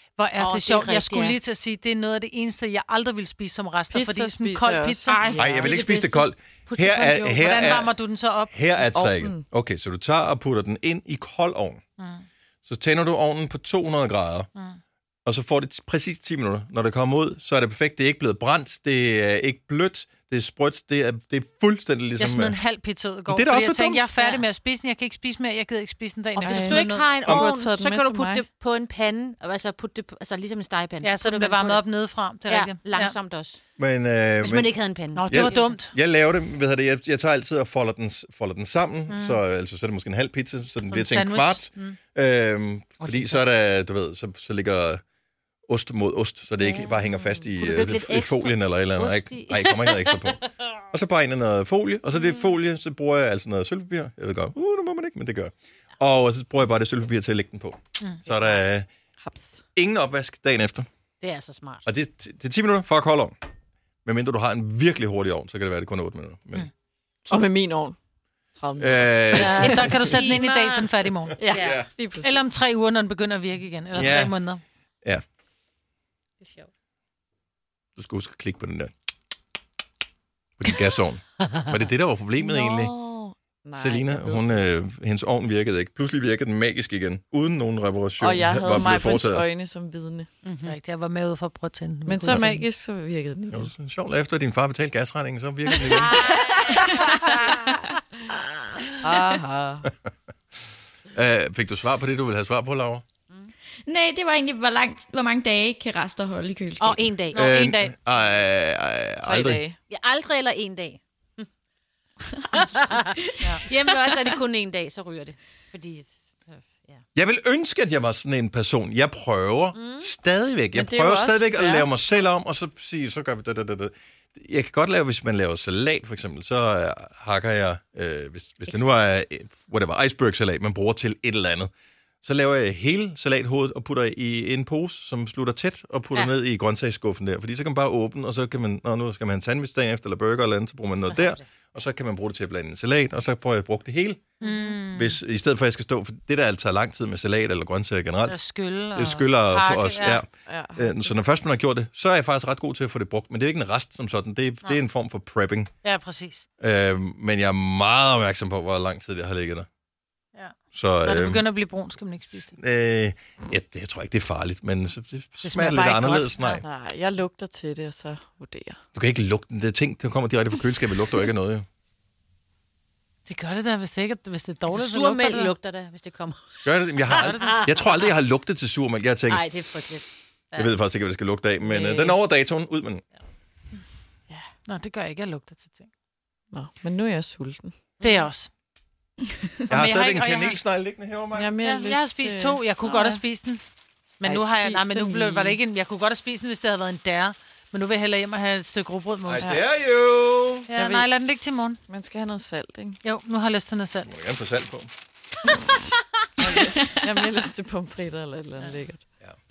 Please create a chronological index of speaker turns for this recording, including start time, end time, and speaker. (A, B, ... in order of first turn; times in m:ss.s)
0:00.2-0:05.2 A
0:00.4-0:01.4 B
0:03.9-0:05.8 C
0:05.1-0:06.2 D
0:05.3-0:07.9 E
0:06.6-0:07.6 B
0:07.3-0:08.5 A
0:08.5-0:11.8 E
0:08.9-0:09.4 C
0:12.0-0:12.2 A
0:12.6-0:14.5 E
0:15.2-0:22.6 E
0:22.2-0:27.1 A
0:23.3-0:24.0 E
0:24.2-0:24.4 B
0:26.4-0:28.4 C
0:26.4-0:31.8 B
0:31.0-0:33.2 A
0:32.5-0:33.6 B
0:33.8-0:34.7 E
0:34.4-0:35.7 B
0:35.1-0:35.9 A
0:35.3-0:45.0 E
0:39.1-0:39.4 A
0:40.9-0:42.0 A
0:43.0-0:43.5 B
0:45.7-0:58.9 E
0:46.6-0:50.2 B
0:52.2-0:52.5 B
0:59.2-0:59.6 C
0:59.7-1:00.9 E
1:01.2-1:01.8 B
1:01.8-1:03.3 E
1:04.0-1:06.7 E
1:07.3-1:08.0 C
1:08.6-1:09.9 C
1:08.8-1:10.0 E
1:09.3-1:11.4 A
1:09.6-1:10.9 B
1:11.4-1:12.5 C
1:11.5-1:11.8 B
1:11.5-1:11.9 E
1:12.2-1:14.6 A
1:13.9-1:14.4 E
1:16.4-1:16.7 B
1:18.0-1:18.9 E
1:20.6-1:22.9 E
1:22.4-1:24.7 C
1:23.7-1:29.4 E
1:28.2-1:30.3 C
1:30.4-1:30.8 B
1:30.6-1:32.6 A
1:32.0-1:33.7 C
1:32.3-1:32.6 E
1:33.5-1:36.2 E
1:36.1-1:37.6 D
1:36.2-1:36.6 B
1:37.2-1:37.5 B
1:39.0-1:39.9 C
1:41.1-1:43.0 E
1:43.8-1:47.2 D
1:46.8-1:47.5 B
1:47.3-1:47.9 A
1:47.3-1:49.6 E
1:49.2-1:49.8 C
1:49.9-1:51.4 B
1:52.4-1:54.4 D
1:52.5-1:57.0 B
1:57.1-2:11.7 E
1:59.7-2:00.1 B
2:00.7-2:01.9 C
2:12.2-2:24.3 E
2:20.9-2:21.4 A
2:24.4-2:25.2 A
2:24.9-2:28.4 E
2:28.2-2:30.2 A
2:28.9-2:35.7 E
2:30.4-2:31.1 C
2:35.8-2:36.4 A
2:36.6-2:39.7 E
2:40.3-2:42.5 A
2:40.7-2:41.4 E
2:42.3-2:46.6 E
2:45.4-2:46.6 A
2:46.6-2:48.8 C
2:48.9-2:51.6 E
2:53.3-2:55.5 A
2:54.7-2:56.6 B
2:56.6-2:59.4 E
2:57.1-2:57.6 A
2:57.1-2:58.0 B
2:59.3-3:00.7 B
3:00.6-3:03.0 E
3:01.6-3:02.2 C
3:04.6-3:05.9 A
3:06.5-3:07.7 C
3:08.0-3:08.3 B
3:08.0-3:08.5 A
3:09.7-3:11.6 E
3:09.7-3:10.6 A
3:11.3-3:13.2 C
3:11.6-3:13.6 A
3:14.2-3:19.6 A
3:14.2-3:15.5 C
3:19.2-3:20.7 E
3:20.7-3:21.8 A
3:20.7-3:21.1 C
3:21.9-3:23.0 C
3:23.0-3:24.1 A
3:24.0-3:24.9 E
3:25.4-3:25.8 C
3:26.4-3:29.0 C
3:26.8-3:27.2 D